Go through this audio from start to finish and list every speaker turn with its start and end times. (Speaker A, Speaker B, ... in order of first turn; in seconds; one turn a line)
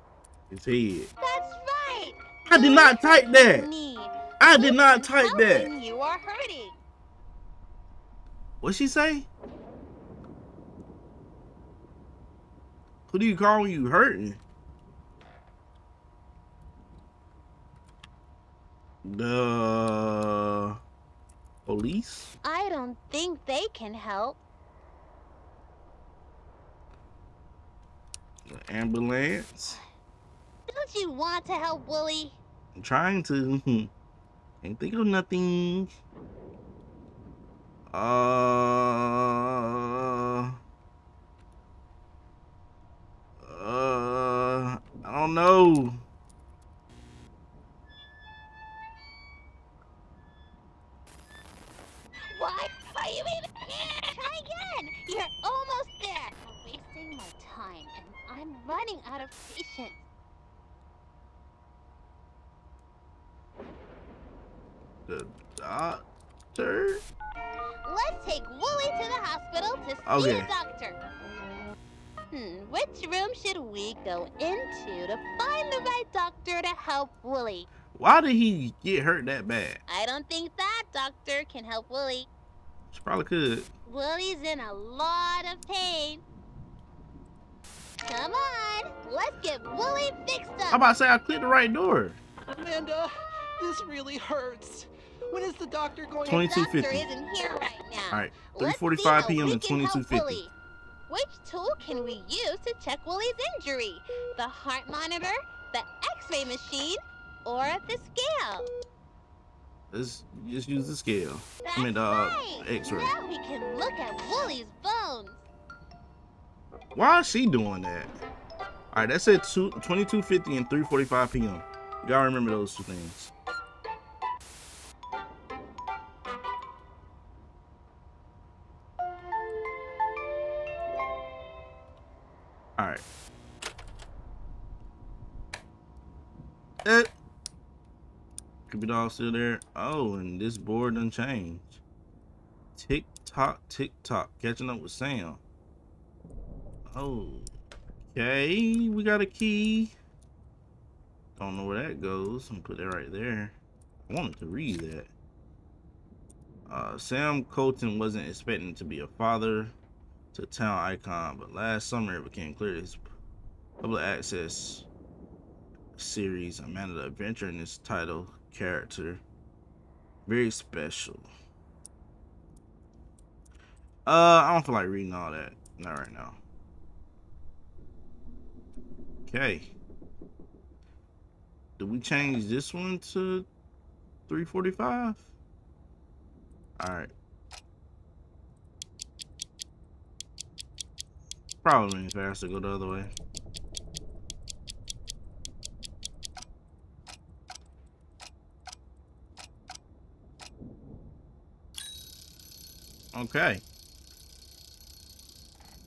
Speaker A: 0.5-1.1
Speaker B: 1.2-6.8
Speaker A: 2.5-3.7
Speaker A: 4.4-5.7
Speaker A: 8.6-9.2
Speaker A: 13.1-14.4
Speaker A: 19.0-20.8
Speaker A: 21.6-22.3
Speaker B: 22.4-24.4
Speaker A: 28.4-29.8
Speaker B: 29.6-29.9
Speaker B: 30.7-32.4
Speaker A: 32.7-33.9
Speaker A: 34.6-35.9
Speaker A: 37.9-40.6
Speaker A: 43.4-46.0
Speaker B: 52.3-60.0
Speaker A: 65.1-66.0
Speaker A: 66.5-67.0
Speaker B: 67.8-71.0
Speaker A: 70.0-70.5
Speaker B: 72.3-77.7
Speaker A: 77.9-79.8
Speaker B: 79.9-82.3
Speaker A: 82.9-83.7
Speaker B: 83.8-86.2
Speaker B: 88.0-90.8
Speaker A: 90.7-92.2
Speaker C: 92.5-96.5
Speaker A: 96.2-97.1
Speaker B: 96.3-100.5
Speaker A: 98.1-100.4
Speaker B: 101.1-108.6
Speaker A: 109.9-113.1
Speaker B: 111.6-115.4
Speaker A: 116.9-118.1
Speaker A: 118.9-123.3
Speaker A: 132.8-133.0
Speaker A: 136.8-137.1
Speaker A: 138.7-141.8
Speaker A: 142.7-145.4
Speaker A: 146.9-147.5
Speaker A: 148.1-149.9
Speaker A: 151.4-153.5
Speaker A: 154.1-155.1
Speaker A: 156.7-159.7
Speaker A: 160.3-163.0
Speaker A: 163.8-164.9
Speaker A: 165.9-169.2
Speaker A: 170.2-171.3
Speaker A: 174.1-176.4
Speaker A: 179.3-179.7
Speaker A: 181.8-183.5
Speaker A: 184.3-185.3
Speaker A: 186.8-187.1
Speaker A: 191.6-193.1
Speaker A: 203.1-203.6